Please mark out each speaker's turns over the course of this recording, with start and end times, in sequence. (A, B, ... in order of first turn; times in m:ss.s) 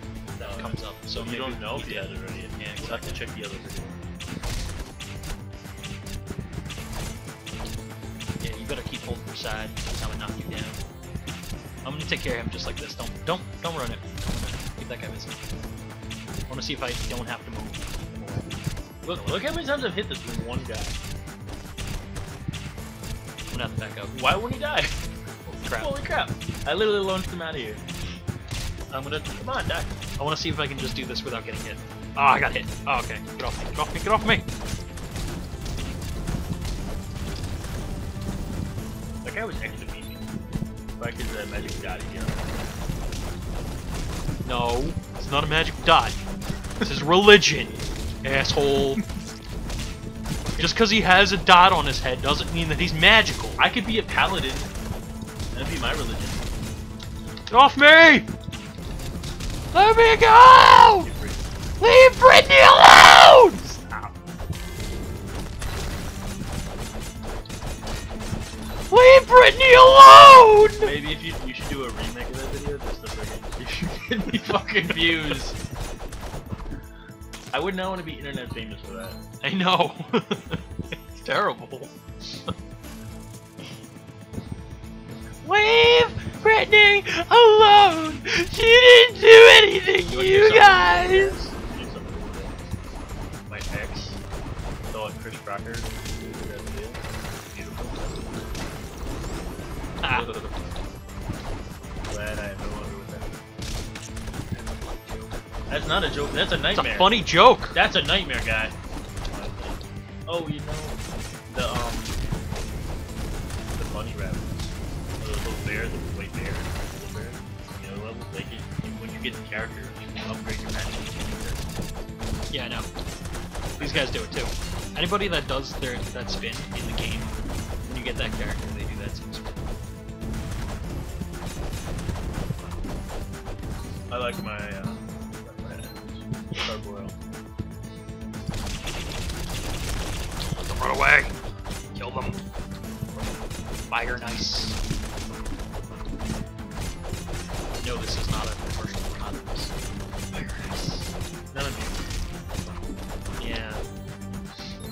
0:00.3-0:03.2 A
0:00.4-0:04.0 B
0:08.4-0:10.8 A
0:11.8-0:15.4 A
0:16.5-0:19.5 A
0:19.0-0:21.0 B
0:23.5-0:24.2 A
0:24.1-0:24.9 B
0:25.5-0:25.9 A
0:25.7-0:27.8 B
0:28.9-0:29.4 A
0:29.4-0:29.9 B
0:30.2-0:34.5 A
0:39.2-0:40.2 B
0:41.0-0:42.5 B
0:44.4-0:46.2 A
0:46.8-0:49.0 A
0:50.6-0:53.6 A
0:53.6-0:54.7 B
0:55.5-0:56.5 B
0:57.5-0:58.2 A
0:59.7-1:01.1 A
1:01.0-1:01.5 B
1:01.8-1:03.9 A
1:08.9-1:10.9 A
1:10.8-1:15.6 B
1:17.5-1:19.2 B
1:19.4-1:20.6 A
1:21.1-1:22.5 A
1:25.4-1:31.4 A
1:30.1-1:32.5 B
1:33.5-1:34.2 B
1:34.9-1:38.5 B
1:40.0-1:40.3 A
1:40.1-1:40.9 B
1:42.1-1:43.4 B
1:44.5-1:45.4 A
1:45.7-1:51.0 B
1:46.7-1:47.8 A
1:51.5-1:52.2 B
1:53.8-2:01.7 B
2:02.5-2:02.9 A
2:03.8-2:04.3 B
2:03.8-2:07.4 A
2:07.9-2:09.5 A
2:14.1-2:17.2 B
2:20.6-2:21.4 A
2:22.0-2:22.4 A
2:23.9-2:24.8 A
2:27.8-2:29.7 A
2:30.3-2:31.1 A
2:31.5-2:32.0 B
2:33.4-2:33.9 A